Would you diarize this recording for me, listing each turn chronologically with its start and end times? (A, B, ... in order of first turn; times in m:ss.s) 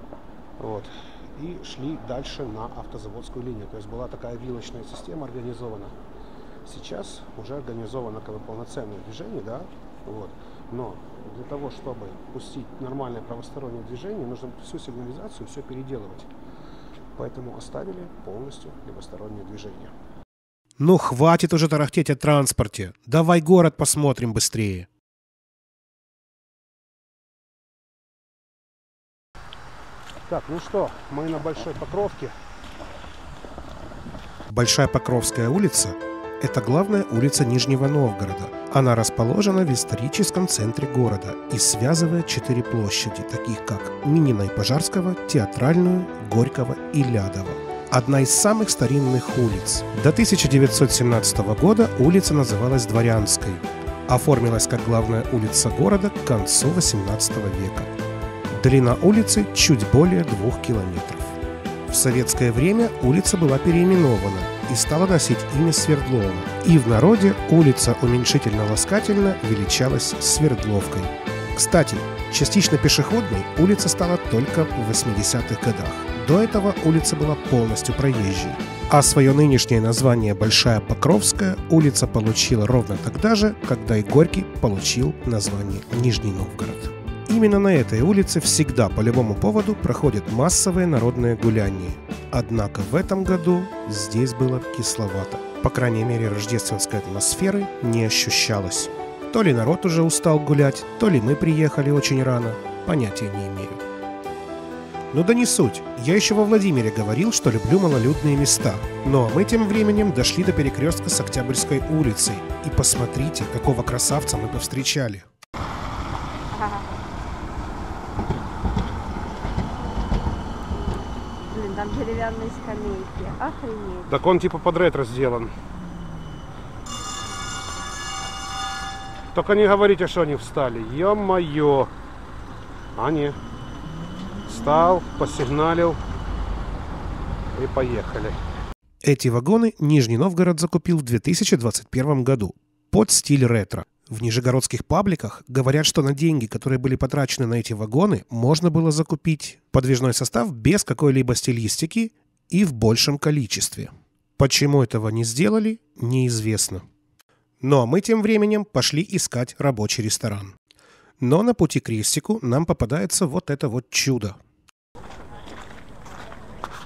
0:00.6-0:05.9 A
0:06.6-0:16.3 A
0:17.2-0:19.9 A
0:20.8-0:24.9 B
0:30.3-0:32.3 A
0:34.5-0:57.9 B
0:58.5-1:01.4 B
1:01.9-1:43.8 B
1:45.1-1:55.3 B
1:56.5-1:57.0 C
2:01.5-2:04.1 C
2:04.1-2:05.5 A
2:09.3-2:11.9 A
2:13.0-2:13.4 A
2:14.5-2:16.0 A
2:17.6-2:18.4 A
2:19.0-2:36.8 B
2:37.6-2:40.6 B
2:41.2-2:44.4 B